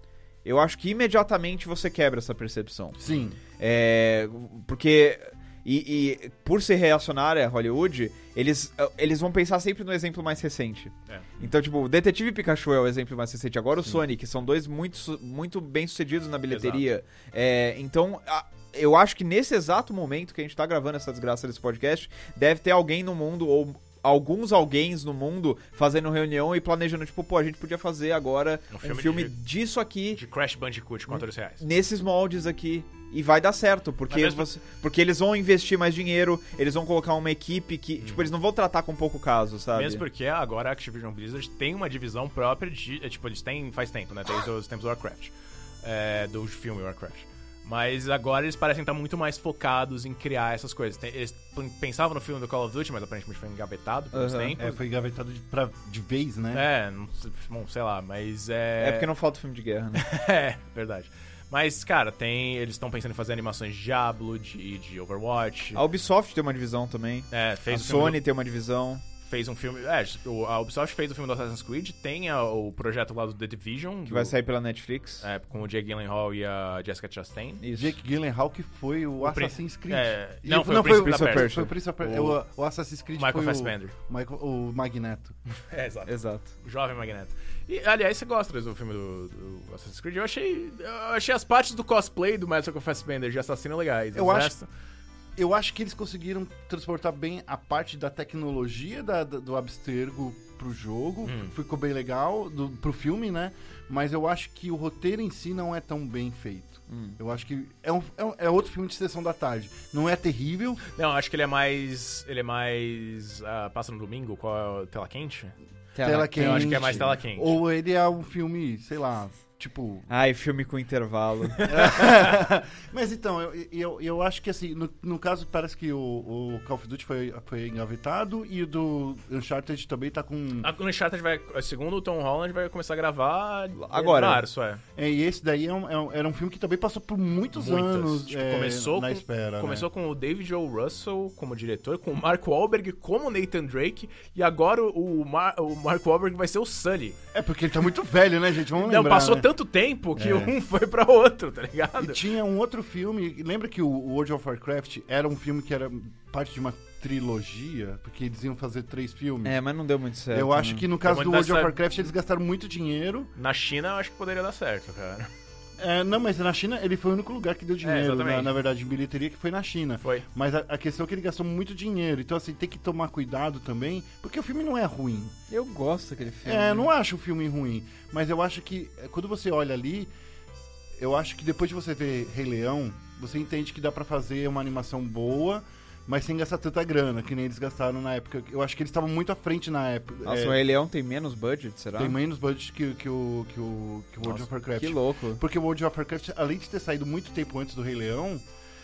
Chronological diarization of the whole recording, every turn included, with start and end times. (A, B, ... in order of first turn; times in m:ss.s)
0:00.4-0:03.0 A
0:03.0-0:03.4 B
0:03.6-0:30.2 A
0:16.5-0:16.9 C
0:28.7-0:29.4 C
0:30.1-0:31.6 C
0:31.1-0:40.0 A
0:34.1-0:34.5 C
0:38.0-0:38.3 C
0:39.7-0:54.8 C
0:54.1-0:54.6 A
0:54.6-0:56.6 B
0:56.5-0:59.1 C
0:58.8-1:00.0 A
1:00.0-1:05.8 C
1:05.7-1:09.0 A
1:07.3-1:08.2 C
1:09.2-1:14.3 C
1:14.1-1:15.2 A
1:15.2-1:17.6 C
1:17.6-1:18.0 A
1:17.8-1:25.4 B
1:19.2-1:21.7 C
1:20.9-1:22.2 A
1:23.2-1:23.9 C
1:25.7-1:34.7 C
1:26.1-1:26.5 A
1:34.1-1:34.5 B
1:35.4-1:50.8 B
1:41.2-1:41.5 C
1:46.9-1:47.2 A
1:51.0-1:55.6 C
1:56.0-1:57.1 A
1:56.0-2:00.1 B
1:56.4-1:57.6 C
2:00.1-2:01.7 A
2:01.6-2:10.7 B
2:10.6-2:14.8 C
2:13.8-2:14.4 A
2:15.0-2:19.9 B
2:17.5-2:27.2 C
2:27.3-2:29.5 B
2:28.8-2:32.2 C
2:30.2-2:30.6 B
2:32.0-2:39.6 B
2:39.4-2:40.9 A
2:40.3-2:43.3 B
2:41.0-2:41.8 C
2:43.4-2:45.3 C
2:45.8-2:55.4 B
2:47.8-2:48.5 C
2:55.5-2:56.9 A
2:56.4-3:00.1 B
3:01.0-3:10.6 B
3:10.2-3:12.2 A
3:12.0-3:18.4 B
3:14.8-3:15.4 A